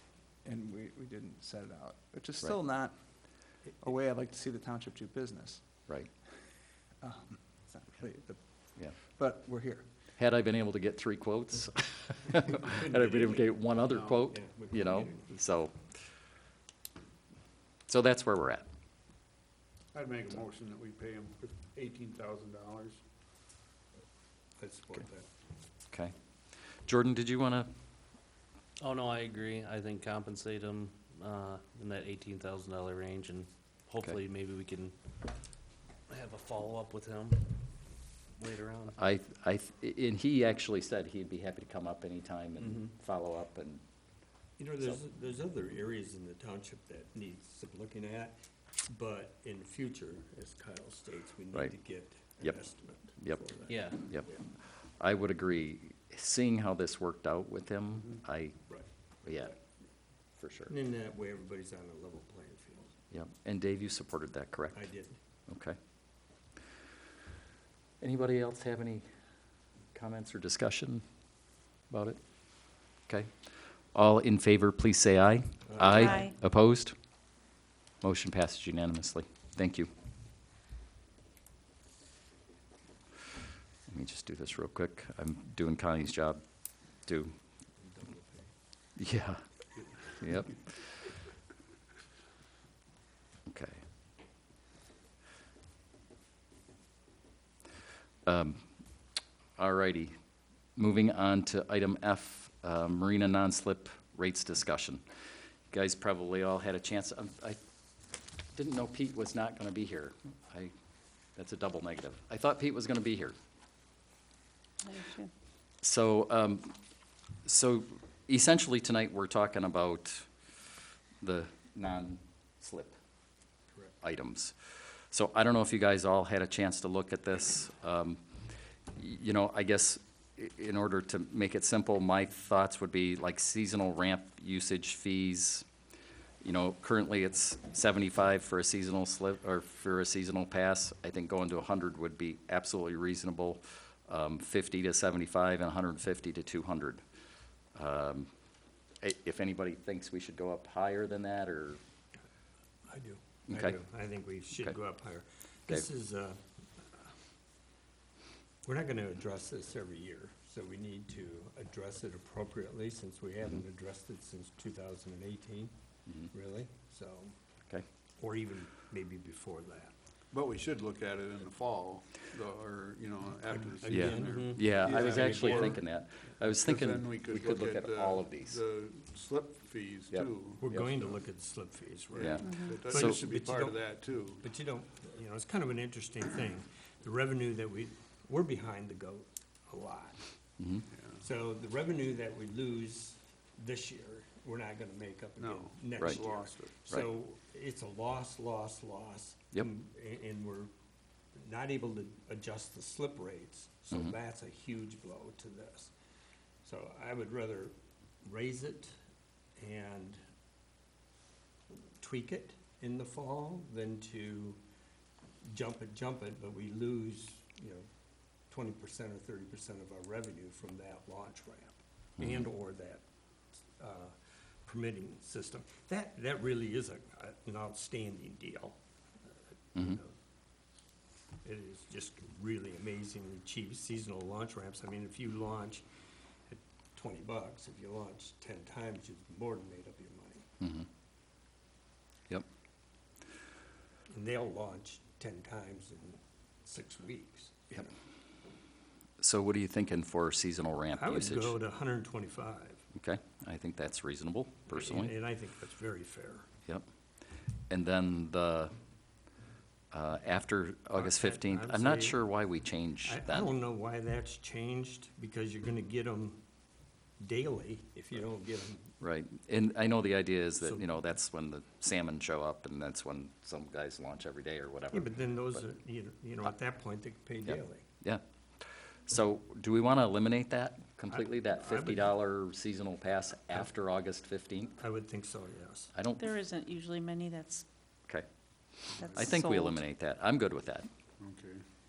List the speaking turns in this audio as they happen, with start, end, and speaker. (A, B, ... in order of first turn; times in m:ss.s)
0:00.4-0:05.8 A
0:07.0-0:09.9 A
0:10.2-0:15.9 B
0:12.7-0:13.5 C
0:13.8-0:14.2 D
0:14.3-0:15.3 C
0:17.9-0:18.6 B
0:19.9-0:23.0 D
0:24.6-0:25.3 C
0:26.8-0:27.7 B
0:28.8-0:35.0 E
0:36.1-0:39.0 E
0:39.0-0:43.8 B
0:44.6-0:48.4 C
0:48.9-0:54.4 C
0:53.2-0:58.7 B
0:53.7-0:54.1 E
0:59.2-0:59.6 B
1:00.4-1:00.7 B
1:00.7-1:03.0 C
1:03.1-1:04.9 B
1:04.7-1:05.2 C
1:05.5-1:05.8 B
1:08.0-1:09.0 B
1:09.9-1:11.0 B
1:11.9-1:13.3 B
1:13.9-1:16.9 B
1:15.7-1:16.2 C
1:16.0-1:16.3 F
1:18.0-1:19.9 B
1:23.9-1:27.3 B
1:27.8-1:28.4 C
1:29.0-1:29.4 B
1:30.1-1:30.8 B
1:33.5-1:33.8 B
1:38.3-1:39.0 B
1:39.6-1:40.1 B
1:40.8-1:45.0 B
1:45.7-1:47.6 B
1:48.6-1:50.7 B
1:51.4-1:53.4 B
1:54.8-1:55.3 F
1:55.8-1:56.8 B
1:57.4-2:00.3 B
2:01.2-2:03.0 B
2:04.0-2:08.2 B
2:09.0-2:15.7 B
2:16.4-2:27.0 B
2:27.8-2:28.3 B
2:29.0-2:31.8 B
2:32.9-2:37.0 C
2:33.5-2:33.8 B
2:38.6-2:47.3 C
2:48.2-2:49.9 C
2:50.3-2:55.9 D
2:53.5-2:55.8 C
2:53.9-2:58.6 B
2:56.5-3:01.2 D
3:00.1-3:00.9 B
3:00.6-3:10.2 C
3:02.1-3:04.5 D
3:02.2-3:03.2 B
3:02.4-3:02.8 F
3:10.6-3:10.9 B
3:11.2-3:20.7 C
3:15.4-3:16.9 D
3:16.0-3:16.2 B
3:21.4-3:25.9 C
3:26.6-3:29.0 C
3:29.6-3:30.2 C
3:32.0-3:34.6 C
3:35.4-3:37.9 C
3:38.5-3:43.0 C
3:42.2-3:42.5 B
3:43.8-3:48.8 C
3:49.8-3:50.1 C
3:51.4-3:55.8 C
3:56.5-4:00.5 C
4:00.6-4:00.9 B
4:04.1-4:07.9 C
4:09.2-4:11.6 B
4:11.0-4:12.8 C
4:13.0-4:15.1 B
4:14.7-4:16.5 C
4:17.7-4:18.7 B
4:19.9-4:23.5 B
4:21.0-4:22.3 C
4:23.0-4:26.4 C
4:27.2-4:28.9 C
4:29.0-4:35.6 B
4:34.9-4:37.8 C
4:37.5-4:38.2 B
4:39.1-4:44.8 B
4:41.1-4:42.1 C
4:44.8-4:45.9 C
4:45.9-4:46.3 B
4:46.2-4:47.7 F
4:49.0-4:49.3 D
4:49.0-4:49.8 F
4:49.1-4:50.9 B
4:51.2-4:51.6 D